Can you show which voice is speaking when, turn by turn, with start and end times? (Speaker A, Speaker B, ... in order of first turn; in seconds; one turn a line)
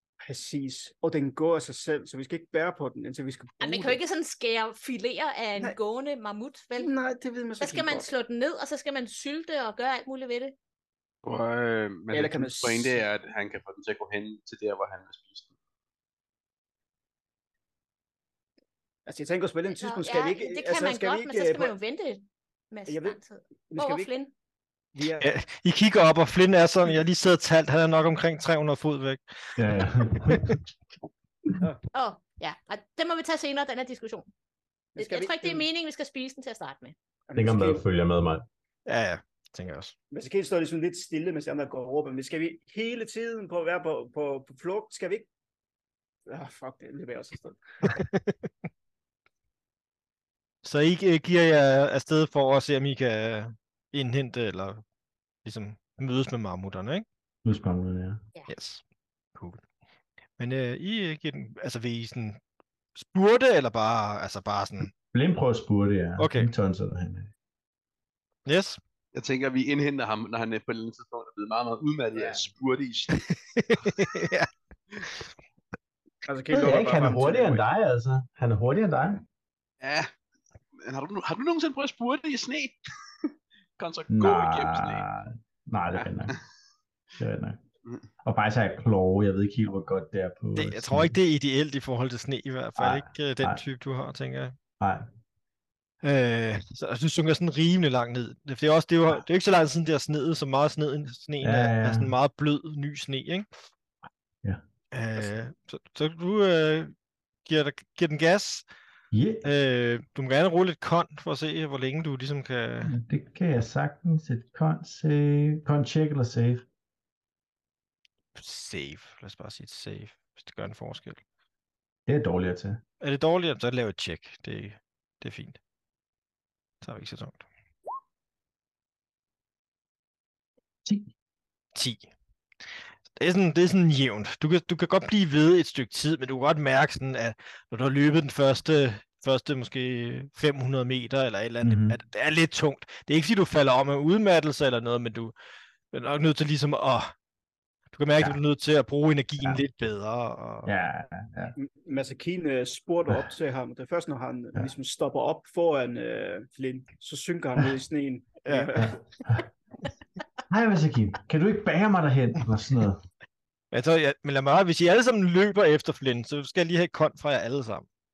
Speaker A: 0.2-4.0
Speaker B: 3.6-6.9
Speaker A: 6.8-8.1
Speaker B: 7.6-10.6
Speaker C: 11.2-15.5
Speaker A: 12.1-13.1
Speaker A: 19.1-21.8
Speaker B: 19.8-24.3
Speaker A: 22.9-23.2
Speaker A: 23.7-24.1
Speaker A: 24.9-25.3
Speaker D: 25.2-30.5
Speaker E: 29.6-30.6
Speaker B: 31.9-34.3
Speaker A: 35.0-35.7
Speaker B: 35.0-37.0
Speaker A: 37.3-37.8
Speaker E: 37.4-38.5
Speaker D: 38.9-39.9
Speaker A: 40.1-45.3
Speaker A: 46.3-47.9
Speaker D: 47.9-48.2
Speaker D: 50.6-54.8
Speaker D: 55.5-57.0
Speaker E: 57.5-58.2
Speaker D: 58.5-58.8
Speaker D: 59.4-59.6
Speaker D: 60.4-62.4
Speaker D: 63.0-64.9
Speaker E: 65.1-67.3
Speaker D: 66.2-66.5
Speaker D: 68.5-68.8
Speaker C: 69.1-73.2
Speaker A: 72.2-72.4
Speaker D: 73.2-74.5
Speaker A: 76.2-77.6
Speaker E: 76.5-79.2
Speaker C: 79.8-80.1
Speaker C: 80.8-82.8
Speaker C: 83.8-85.1
Speaker E: 84.1-86.4
Speaker C: 86.0-86.4
Speaker E: 87.2-87.6
Speaker E: 88.2-91.2
Speaker D: 90.5-94.6
Speaker E: 92.8-93.6
Speaker E: 94.8-95.1
Speaker D: 96.0-103.5
Speaker E: 101.4-102.1
Speaker D: 104.9-106.9
Speaker D: 107.5-108.7
Speaker E: 109.1-109.5
Speaker D: 109.4-113.0
Speaker E: 112.8-116.7
Speaker D: 118.4-121.2
Speaker E: 122.1-122.8
Speaker D: 123.0-125.6
Speaker D: 126.8-127.4
Speaker D: 131.8-132.1
Speaker D: 133.2-145.3
Speaker E: 141.6-142.0
Speaker D: 145.9-147.1
Speaker D: 147.9-150.7
Speaker E: 150.7-151.6
Speaker A: 151.6-159.0
Speaker D: 158.5-158.7
Speaker E: 158.8-159.5
Speaker E: 160.5-163.0
Speaker D: 163.7-167.9